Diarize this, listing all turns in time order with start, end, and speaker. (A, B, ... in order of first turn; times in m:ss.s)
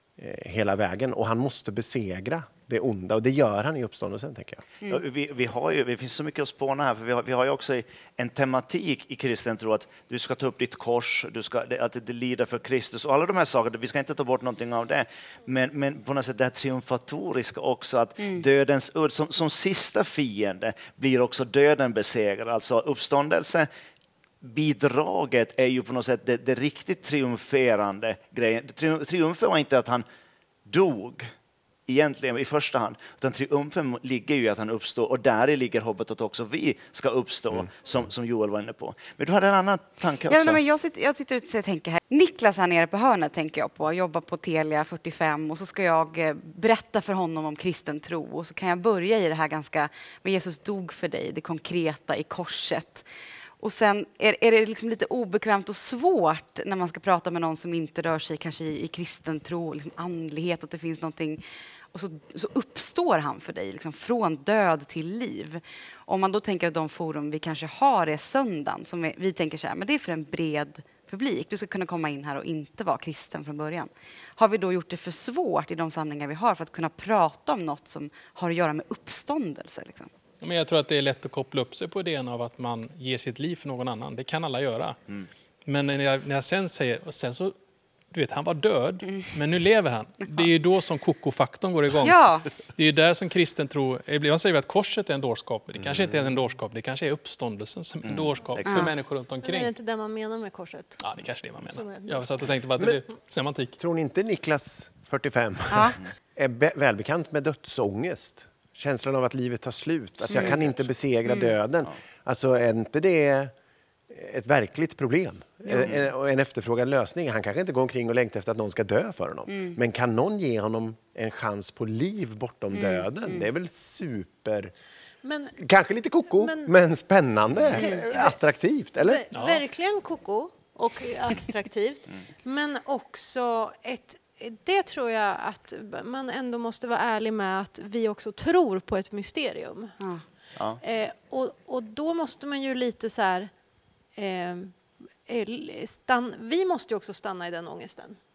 0:00.2-0:04.6 A
0:04.9-0:23.7 B
0:24.4-0:30.0 B
0:30.7-0:31.3 B
0:31.9-0:40.6 B
0:40.3-0:53.1 C
0:53.6-1:20.1 C
1:20.4-1:25.0 D
1:25.7-1:27.6 D
1:28.1-1:39.7 D
1:32.0-1:32.5 C
1:38.1-1:38.9 B
1:38.6-1:38.9 C
1:39.4-1:41.0 E
1:41.0-1:43.8 D
1:41.6-1:42.3 E
1:43.8-1:53.5 A
1:45.7-1:46.0 C
1:50.3-1:50.6 C
1:51.3-1:51.5 C
1:54.1-2:04.7 A
1:55.7-1:55.9 C
1:59.5-1:59.8 C
2:02.7-2:03.4 C
2:05.2-2:05.6 E
2:05.6-2:09.2 A
2:06.3-2:06.7 E
2:07.8-2:08.0 C
2:07.8-2:08.3 E
2:09.0-2:20.0 E
2:09.3-2:09.6 D
2:20.8-2:23.5 E
2:24.2-2:28.2 E